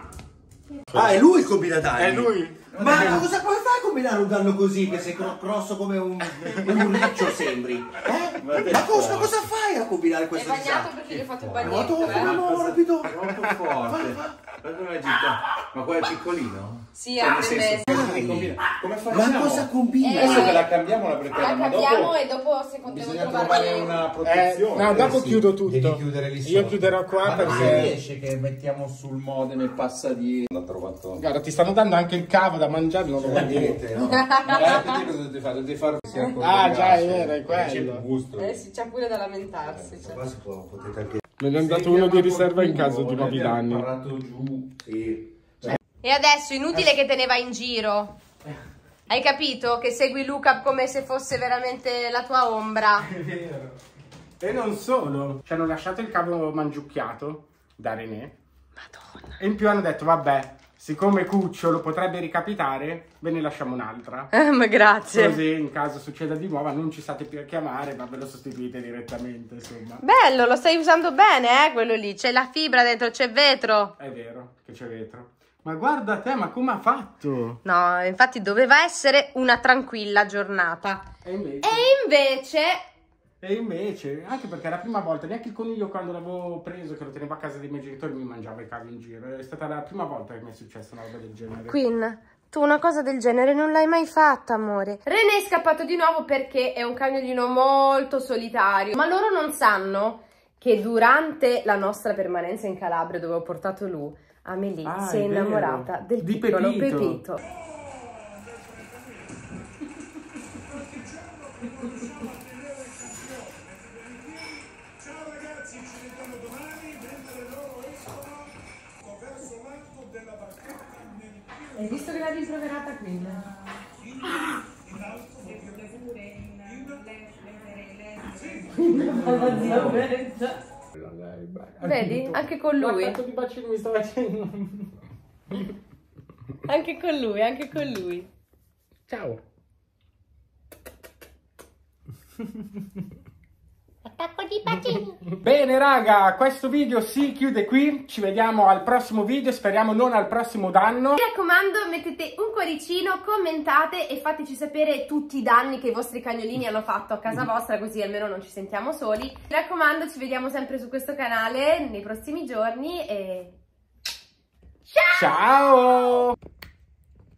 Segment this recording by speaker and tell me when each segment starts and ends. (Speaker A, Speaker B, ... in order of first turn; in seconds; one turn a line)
Speaker A: 0.9-1.2
Speaker B: 0.9-13.2
Speaker A: 2.0-3.2
Speaker C: 2.7-3.3
Speaker A: 6.4-6.7
Speaker C: 6.6-7.3
Speaker C: 8.3-9.5
Speaker D: 10.3-12.4
Speaker C: 11.1-15.3
Speaker B: 13.8-16.8
Speaker C: 15.8-16.5
Speaker D: 16.9-18.0
Speaker C: 17.2-22.2
Speaker B: 17.9-20.6
Speaker A: 17.9-18.6
Speaker D: 20.0-20.7
Speaker D: 21.3-24.0
Speaker C: 22.9-25.4
Speaker B: 23.5-23.9
Speaker A: 24.2-28.0
Speaker B: 24.5-28.6
Speaker C: 27.2-31.2
Speaker A: 31.1-33.8
Speaker B: 33.3-35.0
Speaker C: 33.3-38.5
Speaker D: 34.0-35.0
Speaker A: 36.4-38.0
Speaker D: 38.4-40.2
Speaker B: 39.7-41.2
Speaker A: 41.4-43.9
Speaker C: 41.5-45.8
Speaker D: 46.0-48.2
Speaker D: 49.1-53.1
Speaker A: 53.0-53.7
Speaker A: 54.4-58.3
Speaker D: 58.9-59.3
Speaker A: 59.4-64.3
Speaker D: 64.3-65.4
Speaker A: 65.1-70.0
Speaker D: 70.0-73.9
Speaker A: 74.0-77.6
Speaker D: 77.6-81.0
Speaker A: 81.2-81.9
Speaker D: 81.6-82.8
Speaker A: 83.4-91.8
Speaker D: 91.7-107.4
Speaker A: 104.8-107.2
Speaker D: 121.7-123.5
Speaker D: 125.3-130.6
Speaker A: 128.8-130.1
Speaker A: 130.9-134.9
Speaker D: 131.8-133.2
Speaker D: 136.7-138.3
Speaker A: 139.1-139.4
Speaker D: 144.1-145.2
Speaker A: 145.4-151.2
Speaker D: 151.2-163.6
Speaker D: 164.9-165.9
Speaker A: 165.1-166.3